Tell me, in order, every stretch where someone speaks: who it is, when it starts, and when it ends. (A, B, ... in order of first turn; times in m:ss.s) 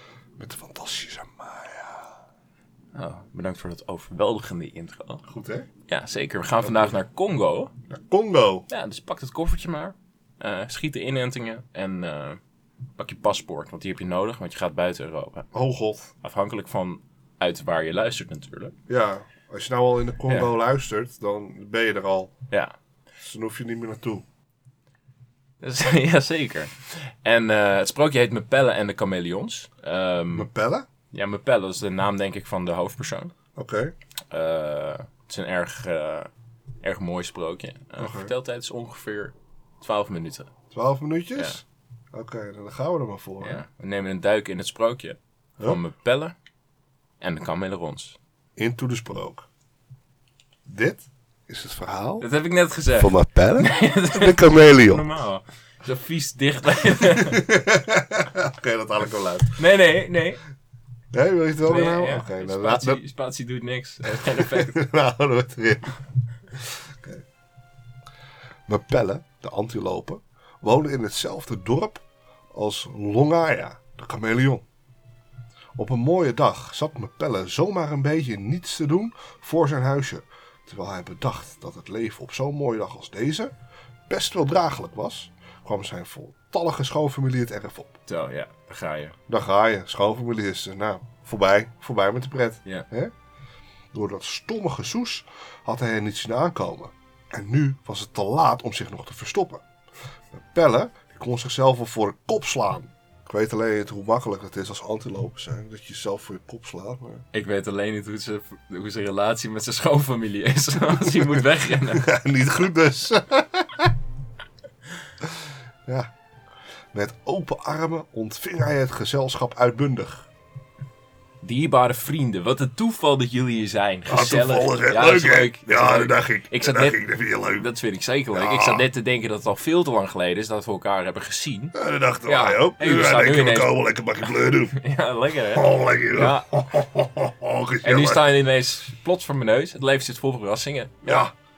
0:00.4-0:02.1 A
0:02.9-0:05.2 B
0:05.2-0:05.7 A
0:05.9-0:07.7 B
0:06.6-0:07.0 A
0:07.9-0:08.7 A
0:08.7-0:12.4 B
0:13.0-0:15.5 B
0:15.5-0:16.1 A
0:16.2-0:18.7 B
0:18.9-0:22.3 A
0:20.3-0:20.5 B
0:23.2-0:24.2 A
0:25.6-0:30.5 B
0:30.3-0:30.8 A
0:31.1-0:33.3 B
0:33.6-0:33.9 A
0:34.3-0:36.3 B
0:36.8-0:40.5 B
0:38.0-0:38.3 A
0:40.7-0:43.6 A
0:43.4-0:46.3 B
0:47.2-0:48.2 B
0:48.6-0:49.5 A
0:50.6-0:52.3 A
0:52.2-0:57.5 B
0:53.0-0:55.0 A
0:57.1-0:59.5 A
0:59.6-1:00.4 B
1:01.1-1:03.0 A
1:01.6-1:04.8 B
1:04.2-1:06.0 A
1:06.6-1:07.2 A
1:08.7-1:14.6 A
1:15.8-1:23.5 A
1:24.1-1:28.0 A
1:28.1-1:29.2 B
1:29.3-1:33.1 A
1:33.9-1:39.6 A
1:40.3-1:47.2 A
1:47.3-1:52.1 B
1:51.9-1:53.9 A
1:56.9-2:00.3 A
2:01.4-2:11.7 B
2:04.1-2:07.6 A
2:08.3-2:08.8 A
2:11.7-2:14.7 A
2:12.2-2:16.7 B
2:15.5-2:18.2 A
2:17.8-2:21.3 B
2:21.0-2:21.3 A